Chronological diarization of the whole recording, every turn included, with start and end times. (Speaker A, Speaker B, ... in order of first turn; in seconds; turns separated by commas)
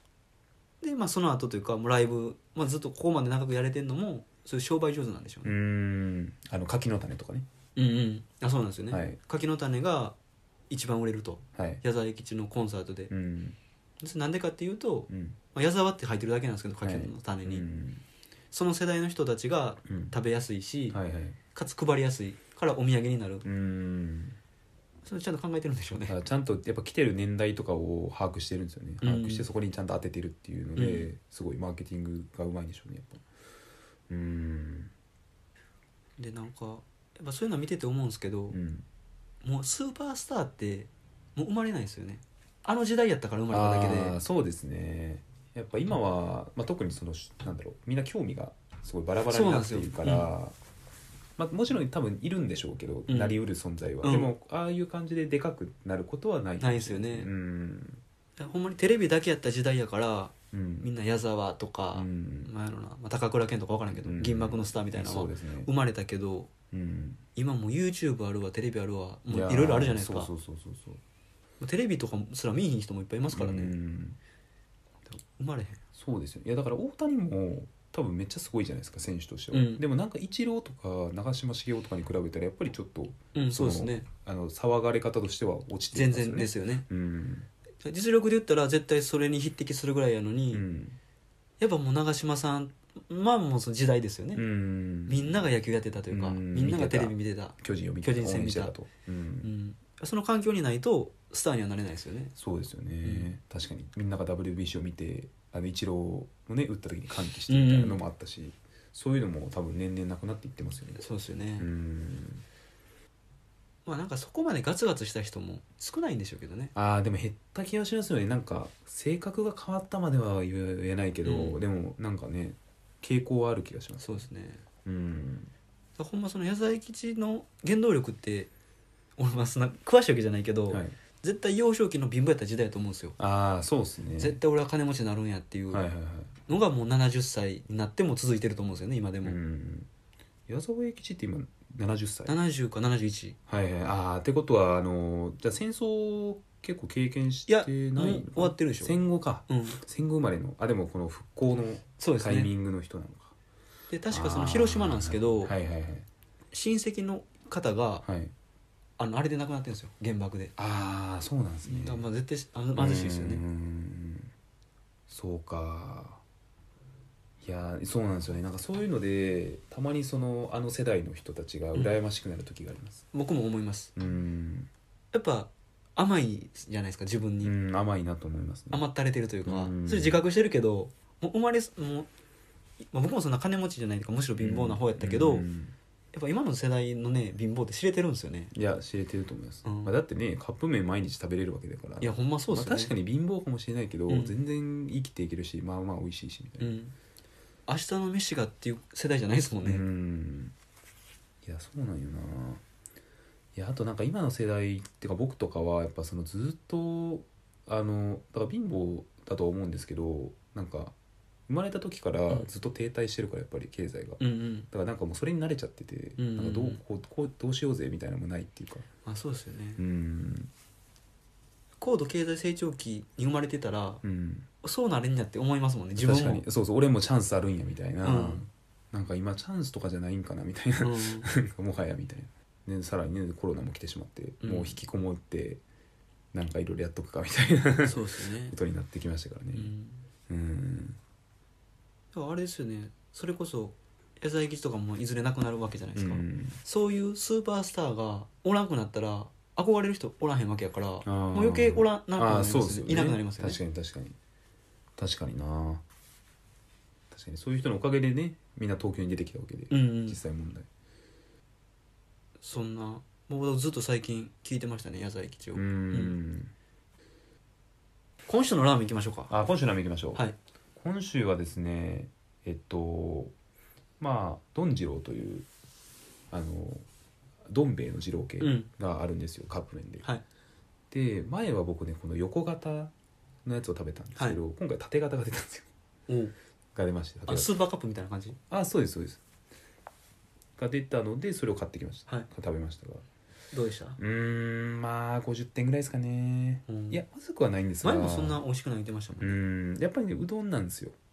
Speaker A: 0.8-5.5, Speaker B: 5.4-7.5, Speaker A: 7.8-10.2, Speaker B: 8.9-9.2, Speaker A: 10.7-13.1, Speaker B: 11.6-11.8, Speaker B: 13.1-13.6, Speaker A: 14.0-17.6, Speaker B: 15.1-15.4, Speaker B: 16.8-18.0, Speaker A: 18.5-21.0, Speaker B: 19.9-20.1, Speaker B: 20.9-21.4, Speaker A: 21.5-23.4, Speaker B: 23.4-24.4, Speaker A: 25.0-26.1, Speaker B: 26.1-33.2, Speaker A: 29.0-29.4, Speaker A: 30.8-31.1, Speaker B: 34.1-34.9, Speaker A: 36.2-38.6, Speaker B: 38.5-38.8, Speaker A: 39.4-44.2, Speaker B: 43.5-50.5, Speaker A: 49.3-50.3, Speaker B: 51.4-58.0, Speaker A: 53.1-53.4, Speaker A: 54.0-54.3, Speaker A: 56.6-57.3, Speaker A: 58.4-66.5, Speaker B: 60.5-60.9, Speaker B: 61.9-62.5, Speaker B: 63.9-65.7, Speaker B: 66.7-67.2, Speaker A: 67.3-70.3, Speaker B: 69.3-71.0, Speaker A: 71.6-73.7, Speaker B: 73.3-74.2, Speaker A: 75.1-75.8, Speaker B: 75.9-87.5, Speaker A: 79.5-79.8, Speaker A: 83.3-84.0, Speaker A: 85.9-86.8, Speaker A: 87.8-90.6, Speaker B: 90.5-91.0, Speaker A: 91.6-94.4, Speaker B: 94.3-95.5, Speaker A: 95.1-98.7, Speaker B: 96.1-99.5, Speaker A: 99.4-102.3, Speaker B: 102.3-111.0, Speaker A: 103.0-103.3, Speaker A: 107.5-108.0, Speaker A: 110.9-111.7, Speaker B: 111.6-112.4, Speaker A: 113.8-116.7, Speaker B: 116.7-124.2, Speaker A: 121.2-121.6, Speaker A: 124.0-124.6, Speaker B: 124.8-125.5, Speaker A: 126.0-128.5, Speaker A: 129.2-133.2, Speaker B: 130.7-130.9, Speaker B: 133.2-134.4, Speaker A: 134.2-135.8, Speaker B: 135.7-136.3, Speaker A: 136.5-139.4, Speaker B: 139.2-139.9, Speaker B: 140.5-142.4, Speaker A: 142.3-143.4, Speaker B: 143.5-153.3, Speaker A: 147.5-149.8, Speaker A: 152.0-152.5, Speaker A: 153.9-155.5, Speaker B: 154.1-156.1, Speaker A: 156.5-158.0, Speaker B: 158.0-158.3, Speaker A: 159.0-160.5, Speaker B: 160.6-162.0, Speaker A: 161.6-163.4, Speaker B: 162.8-164.3, Speaker B: 165.1-166.2, Speaker B: 167.4-173.0, Speaker A: 173.1-173.9, Speaker B: 173.9-174.7, Speaker A: 175.1-177.5, Speaker B: 177.4-178.8, Speaker A: 178.7-182.1, Speaker B: 179.4-180.2, Speaker A: 182.9-185.4, Speaker B: 184.4-185.7, Speaker A: 186.1-188.5, Speaker B: 188.5-196.7, Speaker A: 189.6-189.9, Speaker A: 192.0-192.9, Speaker A: 194.1-194.3, Speaker A: 196.6-196.9, Speaker A: 197.7-199.8, Speaker B: 199.6-200.5, Speaker B: 201.4-202.6, Speaker B: 203.5-210.9, Speaker B: 211.5-214.2, Speaker A: 214.2-214.7, Speaker B: 214.7-218.9, Speaker A: 216.2-216.8, Speaker A: 219.0-219.8, Speaker B: 219.8-220.5, Speaker A: 221.8-224.0, Speaker B: 224.0-224.5, Speaker A: 224.6-226.4, Speaker B: 226.0-235.6, Speaker A: 228.0-228.4, Speaker A: 230.8-231.3, Speaker A: 234.4-234.8, Speaker B: 236.3-239.7, Speaker A: 237.8-238.6, Speaker A: 239.5-240.0, Speaker B: 240.3-241.0, Speaker A: 242.1-253.6, Speaker B: 245.9-246.6, Speaker B: 251.0-254.2, Speaker B: 255.0-255.8, Speaker B: 257.1-260.7, Speaker A: 259.7-260.2, Speaker A: 262.4-266.1, Speaker B: 265.5-266.5, Speaker A: 268.3-269.3, Speaker B: 269.3-270.2, Speaker B: 270.8-273.3, Speaker B: 274.0-275.5, Speaker B: 276.3-276.9, Speaker B: 277.5-280.1, Speaker A: 278.4-278.7, Speaker B: 280.9-282.9, Speaker B: 283.4-285.7, Speaker A: 286.1-286.3, Speaker B: 286.7-287.5, Speaker A: 287.3-288.4, Speaker B: 288.5-289.2, Speaker B: 290.6-293.0, Speaker A: 293.5-294.0, Speaker B: 294.0-298.4, Speaker A: 296.7-297.0, Speaker A: 297.8-299.4, Speaker B: 299.2-300.9